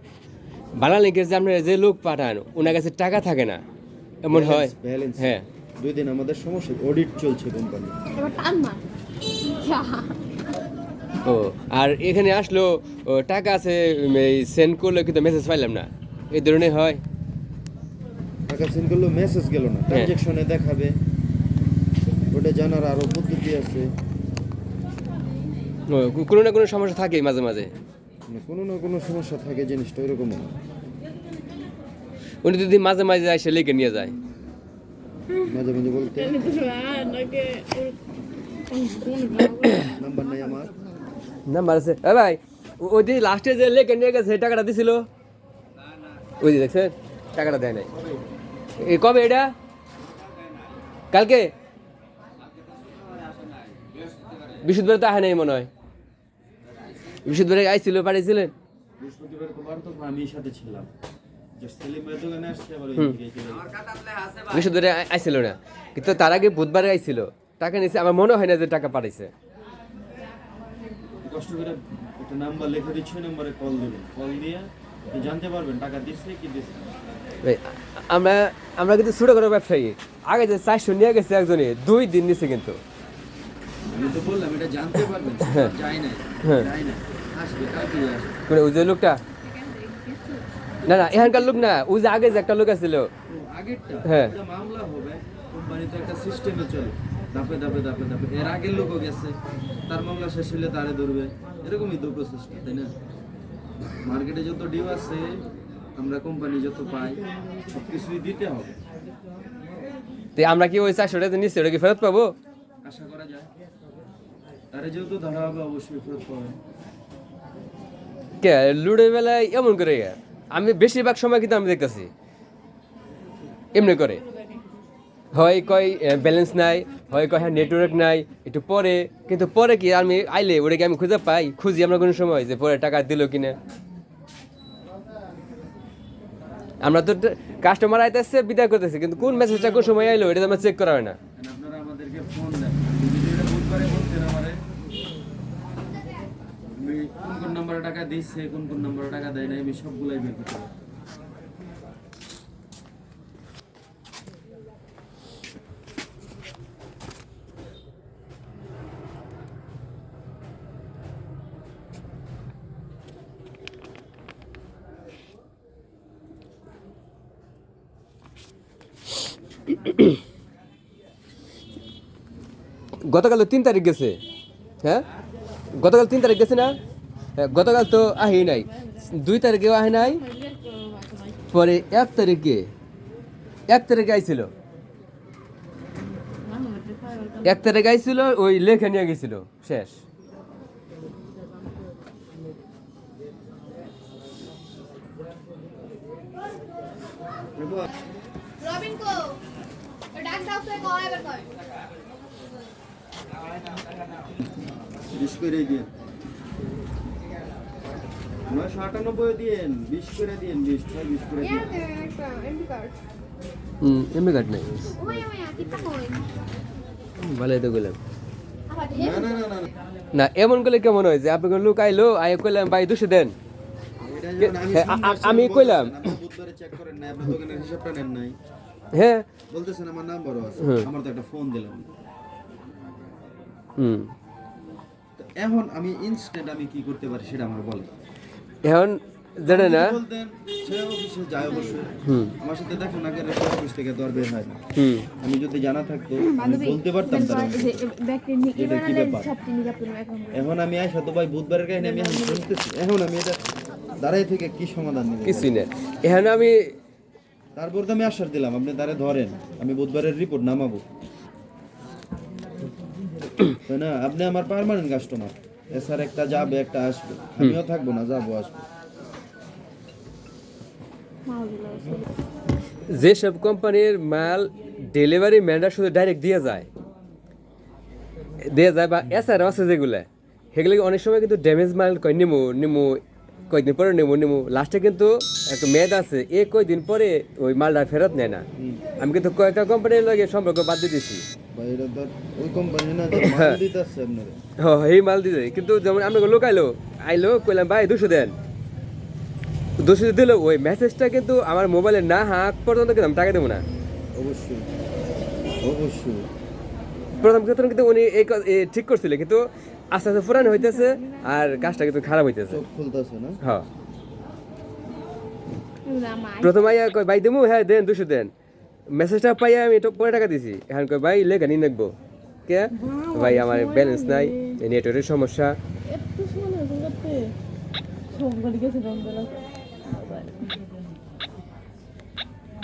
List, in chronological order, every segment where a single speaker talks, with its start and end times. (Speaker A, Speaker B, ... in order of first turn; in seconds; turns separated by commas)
Speaker A: 0.8-3.6, Speaker A: 4.2-5.5, Speaker B: 4.3-8.0, Speaker C: 8.1-8.8, Speaker C: 9.4-10.1, Speaker A: 11.2-17.0, Speaker B: 18.5-20.9, Speaker A: 19.9-20.1, Speaker B: 22.3-23.9, Speaker A: 25.9-27.7, Speaker B: 28.3-30.5, Speaker A: 32.4-34.1, Speaker B: 35.5-36.4, Speaker C: 36.2-38.0, Speaker C: 38.7-40.6, Speaker B: 40.0-40.7, Speaker A: 41.5-45.0, Speaker A: 46.4-47.9, Speaker B: 47.9-48.3, Speaker A: 48.8-49.5, Speaker A: 51.1-51.5, Speaker A: 54.6-55.7, Speaker A: 57.3-58.5, Speaker B: 59.0-60.9, Speaker B: 61.6-63.7, Speaker A: 64.5-69.3, Speaker B: 71.2-76.9, Speaker A: 77.4-82.8, Speaker B: 83.9-88.4, Speaker A: 85.4-85.7, Speaker A: 86.4-86.7, Speaker A: 88.5-89.2, Speaker C: 89.5-90.4, Speaker A: 90.8-93.1, Speaker B: 93.3-99.3, Speaker A: 94.0-94.3, Speaker B: 99.9-102.9, Speaker B: 104.0-105.4, Speaker B: 106.0-108.8, Speaker A: 110.3-112.3, Speaker B: 112.8-113.5, Speaker B: 114.7-116.6, Speaker A: 118.4-122.1, Speaker A: 123.7-124.2, Speaker A: 125.3-133.6, Speaker A: 136.8-141.2, Speaker B: 139.2-140.5, Speaker B: 141.3-144.6, Speaker B: 146.7-150.7, Speaker A: 169.7-170.1, Speaker A: 173.0-174.2, Speaker A: 175.7-176.8, Speaker A: 177.4-180.2, Speaker C: 180.0-181.4, Speaker A: 181.5-182.7, Speaker A: 183.7-184.5, Speaker C: 186.4-187.6, Speaker A: 187.4-190.0, Speaker B: 197.6-197.9, Speaker C: 198.6-199.4, Speaker C: 200.1-201.5, Speaker B: 205.1-205.9, Speaker B: 208.5-211.7, Speaker C: 211.4-213.0, Speaker A: 213.8-214.9, Speaker C: 214.8-216.3, Speaker A: 217.2-218.0, Speaker C: 218.7-219.7, Speaker B: 218.9-219.7, Speaker A: 220.1-223.3, Speaker B: 224.0-228.3, Speaker A: 224.4-226.1, Speaker A: 228.9-229.3, Speaker B: 229.5-231.9, Speaker A: 230.6-230.9, Speaker A: 233.8-234.1, Speaker B: 235.2-237.9, Speaker A: 238.6-240.0, Speaker B: 239.4-244.6, Speaker A: 242.0-242.3, Speaker A: 244.8-245.1, Speaker B: 245.2-247.8, Speaker C: 246.2-250.4, Speaker B: 248.5-249.3, Speaker B: 250.3-253.4, Speaker C: 251.8-252.4, Speaker B: 254.0-255.6, Speaker A: 255.2-256.8, Speaker B: 257.6-260.8, Speaker B: 263.6-268.6, Speaker C: 271.2-272.1, Speaker A: 272.9-276.7, Speaker A: 278.4-282.9, Speaker A: 283.5-288.4, Speaker B: 288.6-288.8, Speaker A: 289.0-291.2, Speaker B: 291.5-294.4, Speaker A: 293.1-293.6, Speaker A: 294.6-298.3, Speaker A: 299.8-303.6, Speaker B: 304.1-304.7, Speaker B: 305.6-306.3, Speaker A: 307.2-312.6, Speaker C: 310.3-311.8, Speaker B: 312.5-313.4, Speaker C: 315.8-316.6, Speaker A: 316.4-318.3, Speaker A: 318.9-321.9, Speaker A: 322.5-325.6, Speaker C: 322.7-324.6, Speaker C: 325.9-327.3, Speaker C: 328.1-330.5